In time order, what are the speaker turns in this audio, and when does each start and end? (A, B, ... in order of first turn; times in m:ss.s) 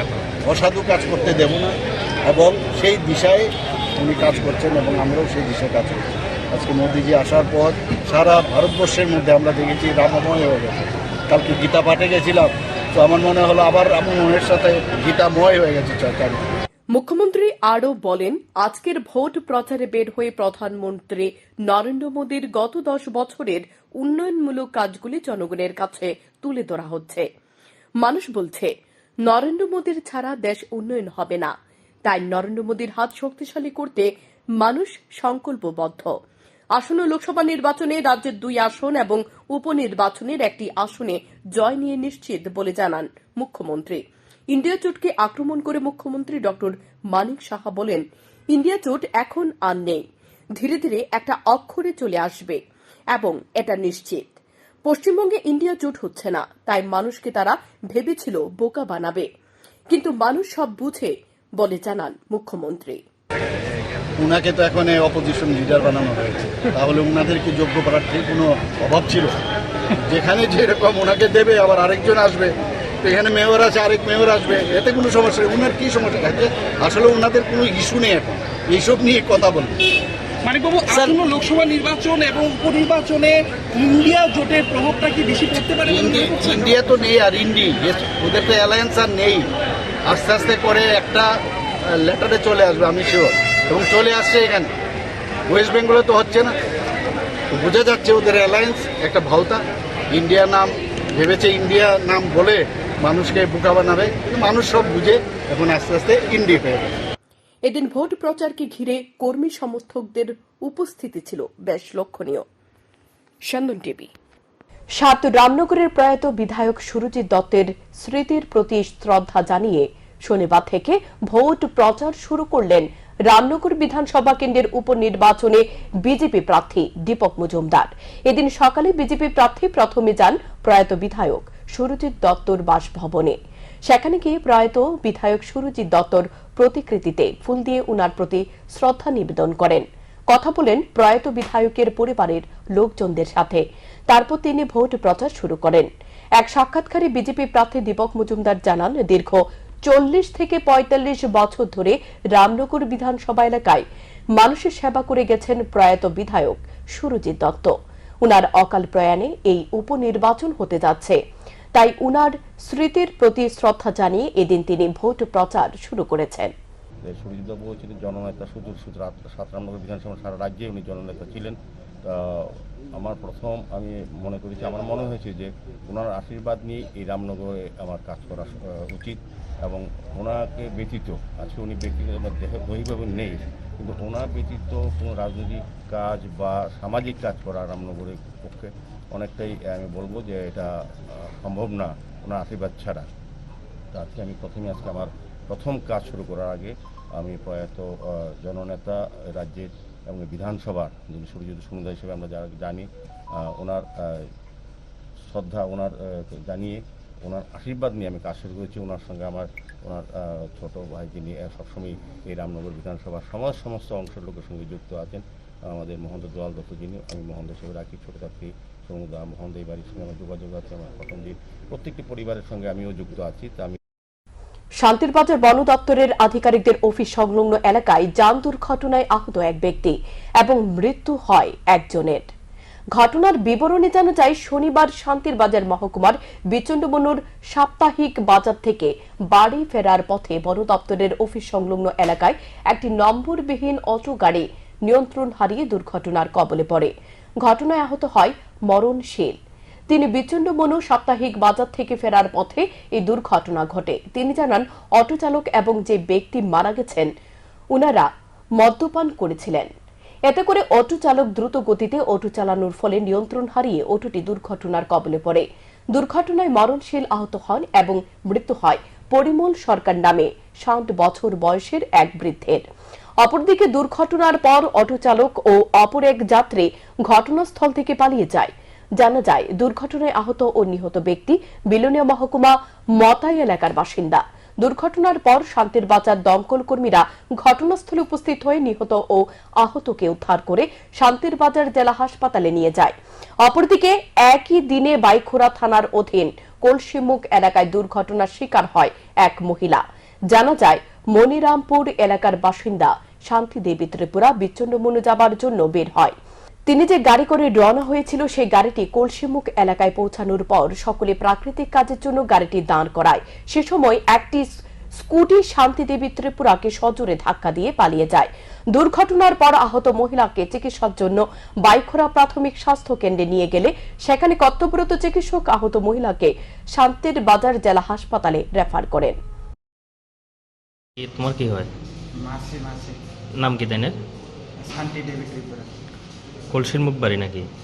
0:00.4-0:16.5 A
0:16.9-0:27.3 B
0:28.0-0:28.7 B
0:29.2-0:31.5 B
0:32.0-0:36.1 B
0:36.8-0:50.0 B
0:50.6-0:52.6 B
0:53.1-0:59.3 B
0:59.9-1:03.0 B
1:04.2-1:09.4 A
1:10.0-1:19.8 A
1:20.9-1:23.3 C
1:24.0-1:25.6 C
1:25.8-1:26.5 D
1:26.0-1:29.5 A
1:30.0-1:31.3 A
1:31.8-1:34.7 A
1:35.5-1:36.6 A
1:37.5-1:46.9 A
1:47.7-1:52.4 B
1:53.5-1:54.1 B
1:55.0-2:33.8 B
2:34.4-2:37.7 B
2:38.2-2:41.2 B
2:41.8-2:46.5 B
2:47.1-2:51.6 D
2:52.1-3:13.1 D
3:13.9-3:22.9 D
3:23.4-3:24.3 D
3:25.3-3:43.8 D
3:44.8-3:52.3 B
3:53.0-4:09.4 B
4:09.9-4:17.1 B
4:17.7-4:19.7 B
4:20.3-4:32.6 B
4:33.2-5:06.1 B
5:06.7-5:14.5 B
5:15.0-5:29.2 B
5:31.0-5:31.7 E
5:32.2-5:33.0 F
5:33.4-5:34.0 E
5:34.6-5:35.7 F
5:36.5-5:37.5 E